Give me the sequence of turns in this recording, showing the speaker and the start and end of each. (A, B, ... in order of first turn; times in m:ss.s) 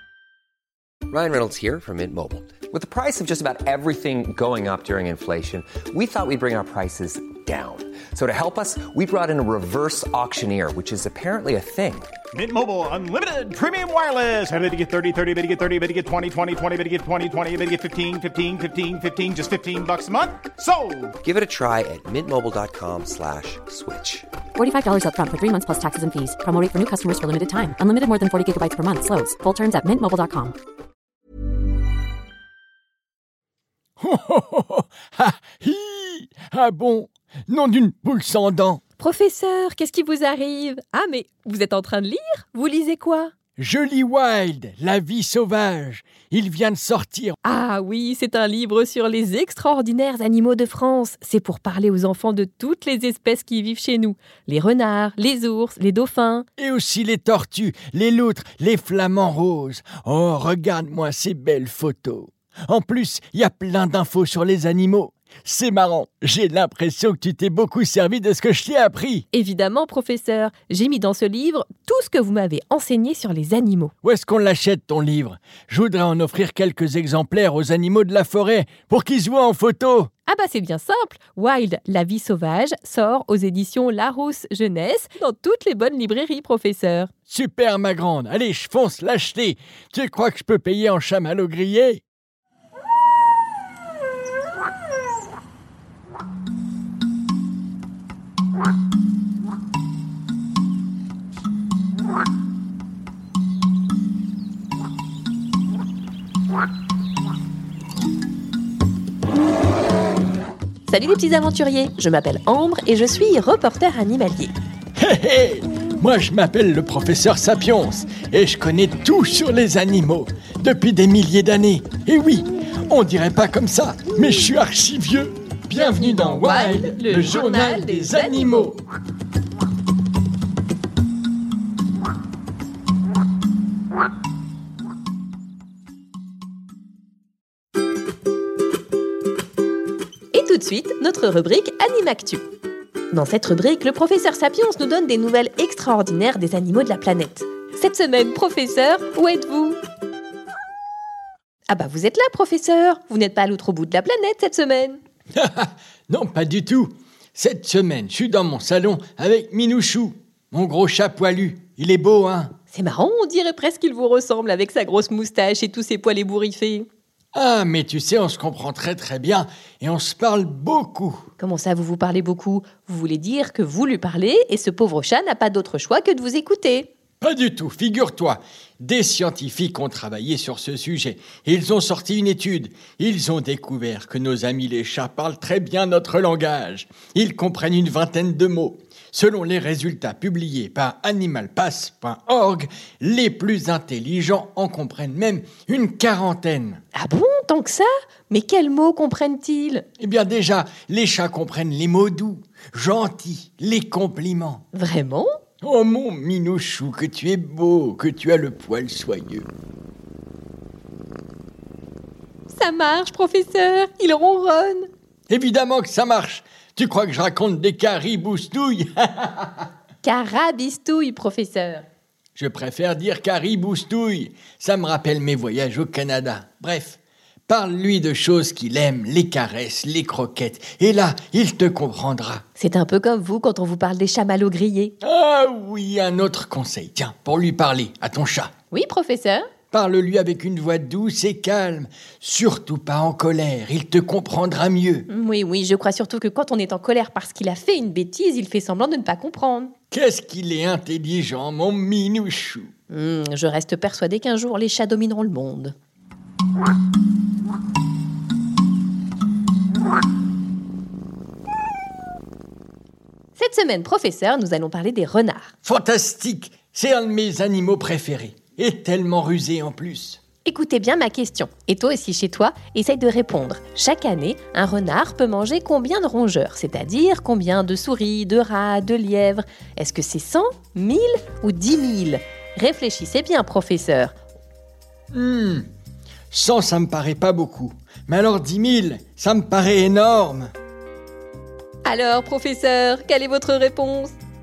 0:01.1-0:12.1 A
0:12.3-0:21.1 B
0:21.2-0:24.3 A
0:24.6-0:30.6 C
0:34.0-0:38.8 D
0:39.0-0:43.3 E
0:43.6-0:47.4 D
0:47.4-0:56.5 E
0:56.6-1:09.3 D
1:09.3-1:13.9 E
1:14.0-1:20.1 D
1:20.3-1:27.1 E
1:27.3-1:32.0 D
1:50.9-1:54.5 E
1:55.0-2:08.8 D
2:05.7-2:08.8 E
2:20.3-2:22.4 E
2:23.1-2:29.8 E
2:31.7-2:35.0 E
2:35.4-2:42.5 D
2:42.7-2:46.9 E
2:47.4-2:51.3 D
2:51.4-2:56.9 E
2:57.2-3:16.8 D
3:17.0-3:19.9 E
3:20.0-3:24.6 D
3:24.7-3:25.3 E
3:25.6-3:29.5 D
3:32.5-3:34.9 E
3:35.3-3:39.6 D
3:40.0-3:41.8 E
3:42.4-3:52.4 D
3:52.6-3:54.9 E
3:55.0-3:58.5 D
3:58.7-3:59.5 E
3:59.7-4:05.1 D
4:05.1-4:09.7 E
4:09.9-4:12.7 D
4:12.9-4:15.7 E
4:23.4-4:25.5 E
4:25.6-4:30.2 D
4:30.4-4:44.1 E
4:45.1-4:45.7 D
4:46.3-4:50.5 D
4:51.8-4:54.2 E